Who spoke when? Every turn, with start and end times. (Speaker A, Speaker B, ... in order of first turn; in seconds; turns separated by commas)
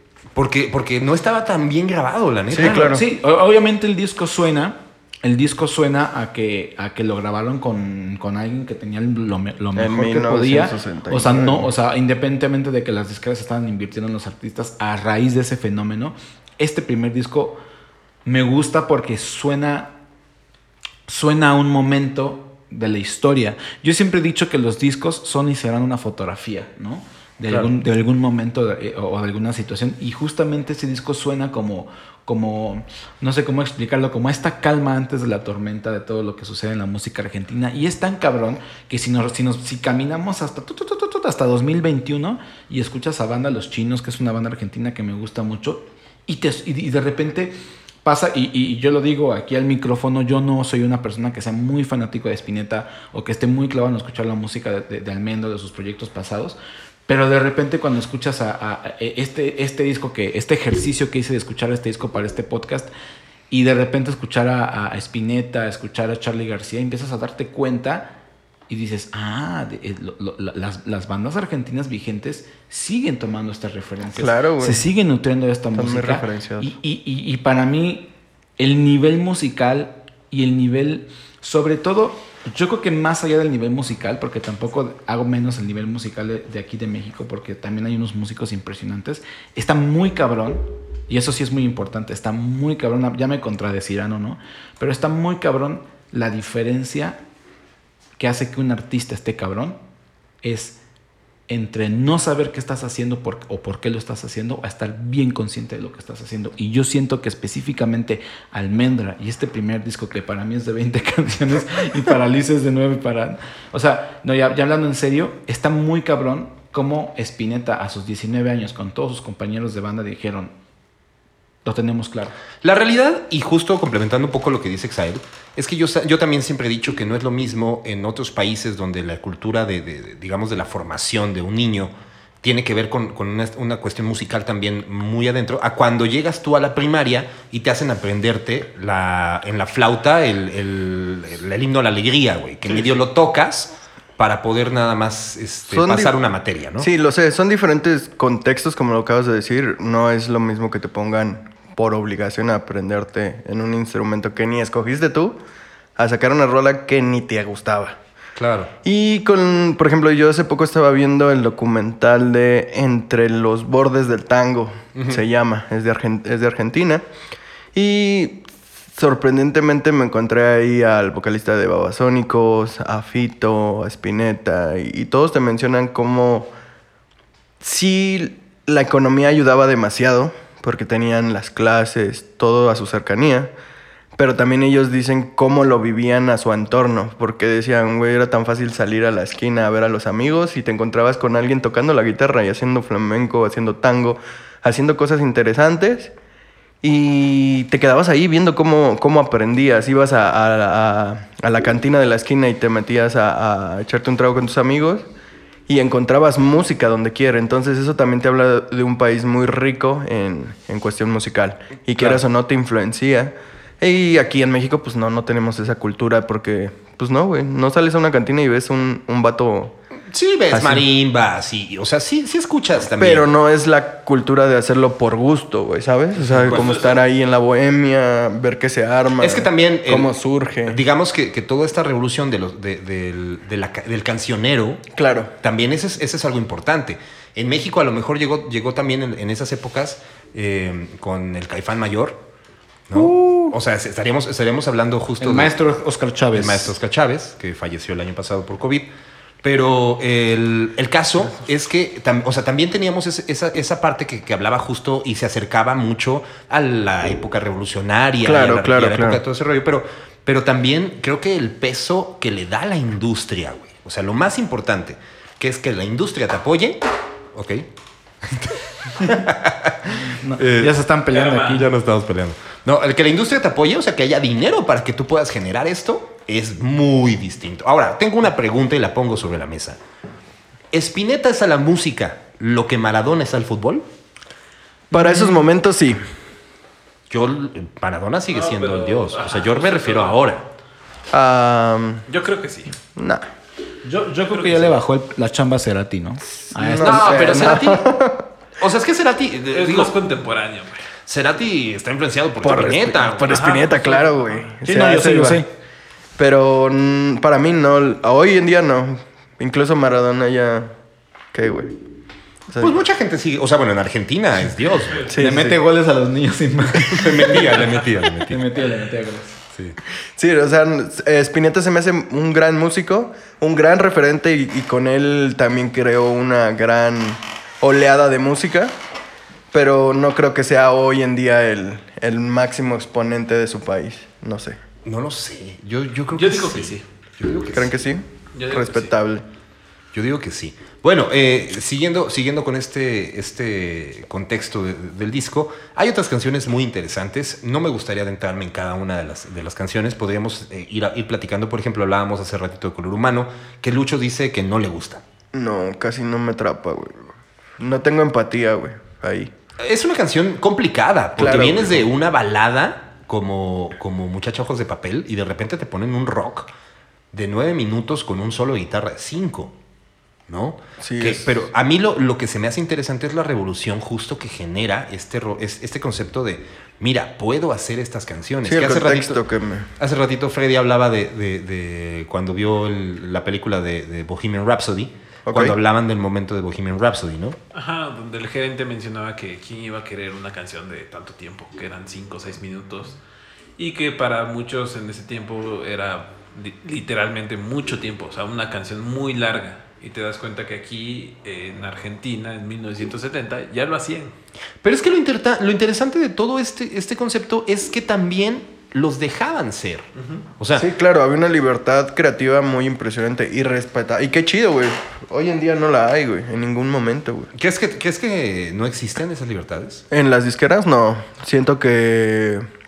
Speaker A: 0.3-3.0, Speaker B: 2.5-3.0, Speaker C: 2.6-17.6, Speaker B: 9.8-11.7, Speaker C: 18.2-19.9, Speaker C: 21.1-56.6, Speaker C: 57.1-62.9, Speaker C: 63.5-68.1, Speaker C: 68.7-97.2, Speaker B: 74.2-74.8, Speaker B: 75.7-76.7, Speaker C: 98.2-99.8, Speaker C: 100.4-100.8, Speaker C: 101.5-120.5, Speaker C: 121.6-122.3, Speaker A: 122.6-146.9, Speaker B: 145.7-146.2, Speaker B: 146.8-155.4, Speaker B: 155.9-158.0, Speaker A: 158.3-158.7, Speaker B: 158.8-167.0, Speaker A: 164.9-165.2, Speaker B: 167.7-176.5, Speaker B: 177.6-183.5, Speaker B: 184.2-196.1, Speaker B: 196.8-205.1, Speaker B: 205.7-219.8, Speaker A: 220.1-223.3, Speaker B: 220.5-220.8, Speaker B: 222.9-230.8, Speaker A: 226.2-226.6, Speaker D: 226.4-227.0, Speaker A: 229.2-230.1, Speaker A: 230.6-234.9, Speaker B: 234.9-235.3, Speaker A: 235.4-242.2, Speaker A: 242.9-245.5, Speaker B: 242.9-243.5, Speaker C: 245.2-246.7, Speaker A: 246.3-248.9, Speaker A: 249.4-266.8, Speaker B: 258.2-259.2, Speaker A: 267.3-267.6, Speaker A: 268.2-270.8, Speaker C: 270.0-271.7, Speaker D: 271.1-271.6, Speaker A: 271.4-279.8, Speaker A: 280.7-283.8, Speaker C: 284.9-285.4, Speaker B: 284.9-286.0, Speaker A: 287.1-290.4, Speaker D: 288.3-290.2, Speaker B: 291.1-292.1, Speaker D: 292.1-292.8, Speaker B: 292.9-293.3, Speaker C: 293.8-297.6, Speaker D: 294.3-294.8, Speaker B: 296.5-298.2, Speaker A: 296.8-297.9, Speaker A: 298.6-299.9, Speaker D: 299.5-300.9, Speaker A: 301.1-303.7, Speaker B: 302.4-305.4, Speaker D: 303.2-304.4, Speaker C: 304.6-305.5, Speaker B: 306.2-310.7, Speaker B: 311.3-311.7, Speaker B: 312.5-312.8, Speaker A: 312.6-315.1, Speaker D: 314.9-315.1, Speaker B: 315.1-315.6, Speaker C: 315.2-317.6, Speaker A: 316.8-318.4, Speaker C: 318.3-319.4, Speaker B: 320.1-328.8, Speaker B: 329.5-334.6, Speaker A: 334.8-337.8, Speaker D: 336.1-336.8, Speaker B: 337.5-339.2, Speaker D: 338.3-338.9, Speaker A: 339.9-355.0, Speaker B: 355.3-359.3, Speaker A: 359.6-366.5, Speaker B: 361.2-361.9, Speaker A: 367.1-369.5, Speaker A: 370.3-379.2, Speaker B: 370.8-371.3, Speaker B: 378.4-379.7, Speaker A: 379.8-387.4, Speaker B: 385.3-385.6, Speaker D: 387.5-393.0, Speaker D: 393.6-404.1, Speaker A: 404.6-409.9, Speaker D: 410.0-410.2, Speaker A: 410.4-410.6, Speaker B: 410.5-417.3, Speaker A: 417.3-419.8, Speaker B: 419.9-422.5